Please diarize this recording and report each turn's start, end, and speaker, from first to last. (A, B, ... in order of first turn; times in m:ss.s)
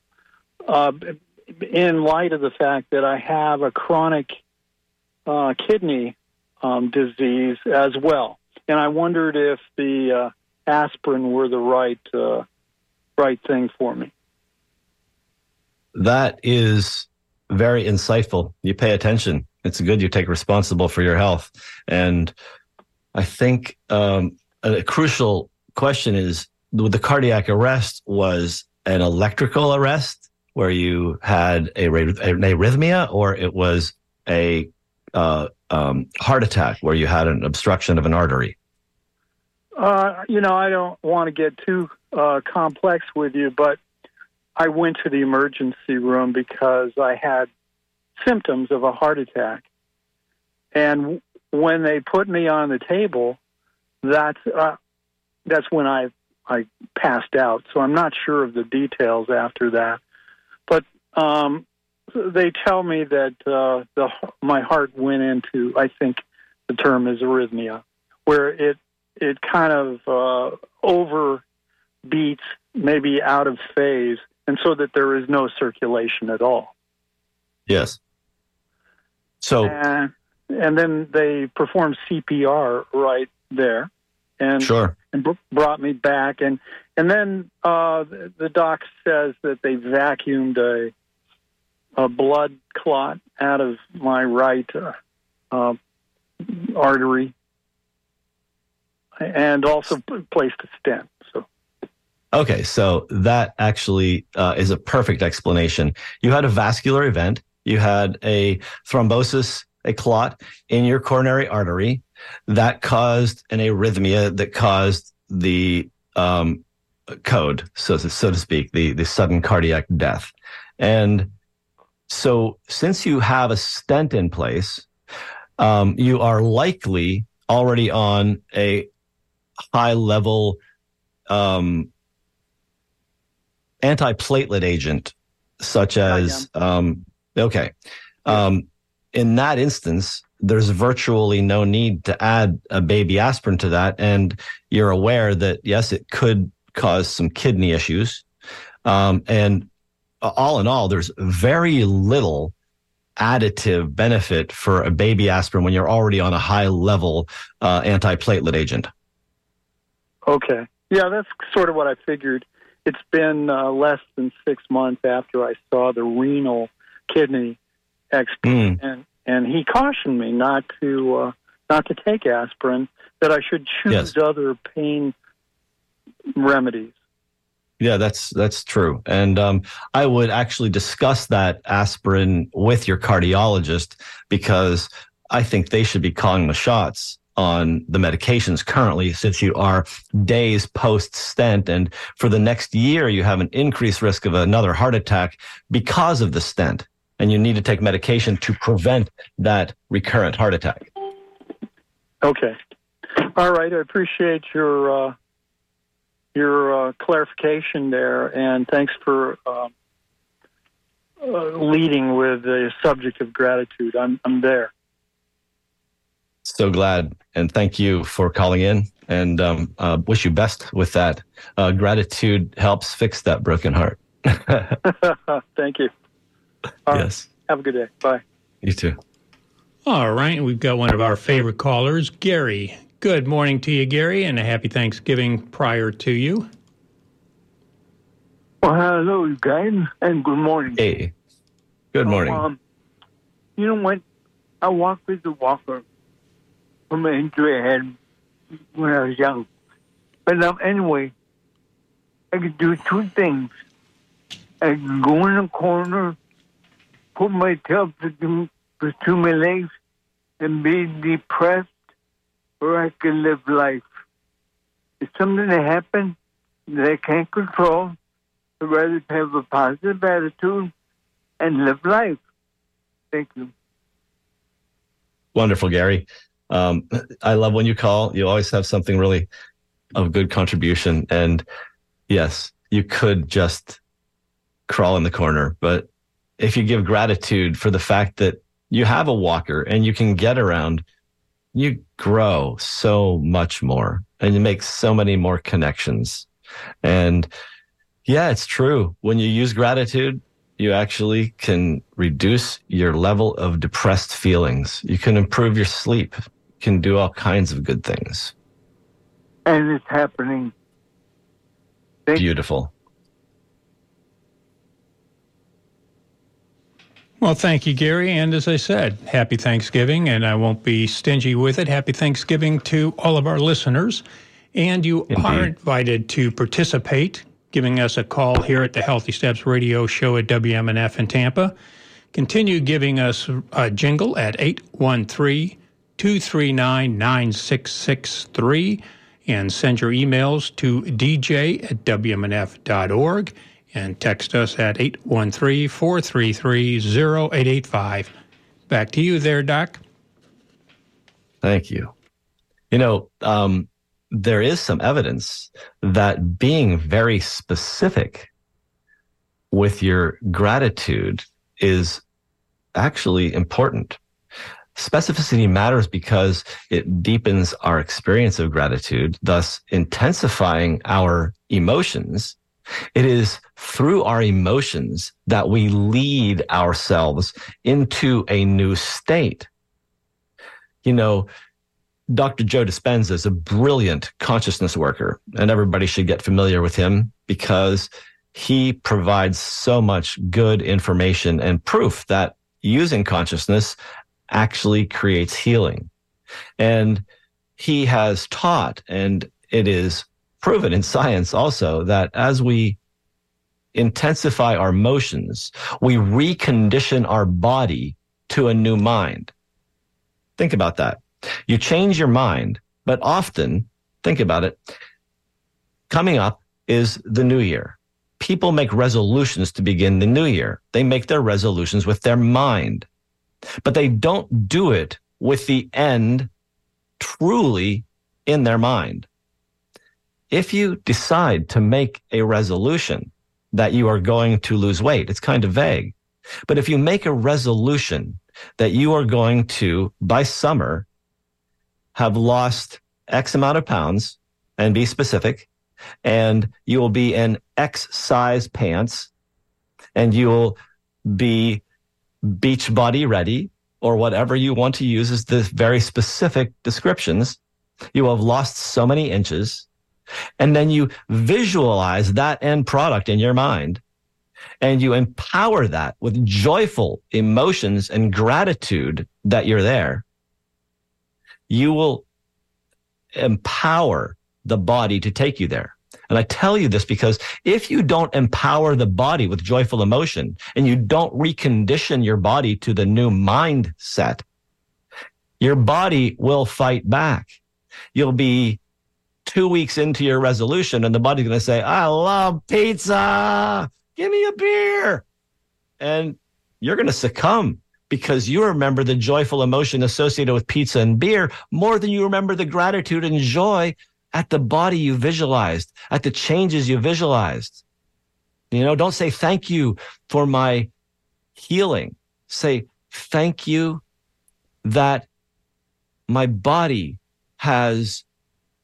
0:00.7-0:04.4 A
0:05.3-0:12.4 A
0:13.2-0:14.1 A
0:16.0-0:22.4 B
0:23.1-0:38.6 B
0:39.8-0:43.8 A
0:44.6-0:47.5 A
0:48.2-0:49.7 A
0:50.7-0:53.4 A
0:54.0-0:54.8 A
0:55.5-1:00.0 A
1:00.7-1:11.4 A
1:12.0-1:16.7 A
1:17.7-1:18.0 B
1:19.4-1:19.8 B
1:19.6-1:30.9 A
1:24.6-1:24.9 B
1:32.0-1:35.0 A
1:35.5-1:35.8 A
1:36.4-1:37.3 A
1:39.2-1:41.5 A
1:42.3-1:56.6 B
1:57.2-2:01.3 B
2:02.1-2:04.9 B
2:05.6-2:08.9 B
2:09.7-2:10.6 B
2:11.3-2:11.9 B
2:13.8-2:17.7 B
2:16.1-2:16.4 A
2:18.2-2:28.2 B
2:28.8-2:29.7 B
2:30.2-2:32.5 B
2:33.2-2:38.9 B
2:40.3-2:47.6 A
2:48.1-2:55.1 A
2:48.4-2:48.8 B
2:56.4-2:57.0 A
2:57.8-3:20.9 B
3:22.2-3:22.6 A
3:23.1-3:25.2 A
3:26.3-3:29.7 A
3:31.2-3:34.7 A
3:36.4-3:44.8 B
3:44.8-3:45.9 A
3:46.9-3:47.3 B
3:46.9-3:48.2 A
3:48.6-3:49.0 B
3:49.9-3:56.5 C
3:58.6-4:00.8 D
4:00.8-4:01.1 B
4:01.9-4:02.4 B
4:02.0-4:02.6 D
4:03.6-4:04.0 D
4:04.6-4:05.8 D
4:06.9-4:08.0 D
4:08.7-4:09.5 D
4:10.3-4:11.1 D
4:12.3-4:13.5 D
4:14.6-4:16.2 D
4:17.2-4:19.7 D
4:20.4-4:21.7 D
4:22.6-4:23.8 D
4:25.0-4:26.2 D
4:26.7-4:28.0 D
4:28.6-4:30.7 D
4:31.4-4:32.2 D
4:33.1-4:33.5 D
4:35.4-4:39.3 B
4:40.0-4:41.4 B
4:42.1-4:43.8 B
4:44.7-4:45.9 B
4:46.4-4:50.8 B
4:51.5-4:56.3 B
4:56.8-4:57.3 B
4:58.1-5:08.3 B
5:09.5-5:10.5 D
5:12.2-5:12.7 B
5:17.2-5:31.5 C
5:25.1-5:25.5 B
5:32.1-5:48.1 C
5:48.7-5:49.8 C
5:51.4-5:51.9 B
5:52.7-5:58.3 B
5:59.5-6:02.0 B
6:02.8-6:04.0 B
6:04.8-6:12.4 B
6:13.0-6:19.5 B
6:20.8-6:21.3 B
6:22.1-6:33.8 B
6:34.3-6:35.9 B
6:36.6-6:37.0 B
6:37.6-6:42.8 B
6:43.7-6:49.3 B
6:50.4-6:54.6 B
6:55.9-7:02.9 B
7:03.6-7:06.3 B
7:07.0-7:09.1 B
7:10.3-7:16.0 B
7:16.5-7:20.9 B
7:22.0-7:25.5 B
7:26.0-7:29.1 B
7:30.0-7:31.6 B
7:32.2-7:37.4 B
7:37.9-7:39.7 B
7:40.4-7:43.8 B
7:44.6-7:50.0 B
7:51.5-7:52.0 B
7:53.2-8:04.2 B
8:05.4-8:07.4 B
8:07.9-8:08.6 B
8:09.3-8:15.0 B
8:15.8-8:27.6 B
8:28.5-8:30.7 B
8:31.4-8:33.8 B
8:34.6-8:35.1 B
8:36.1-8:38.0 B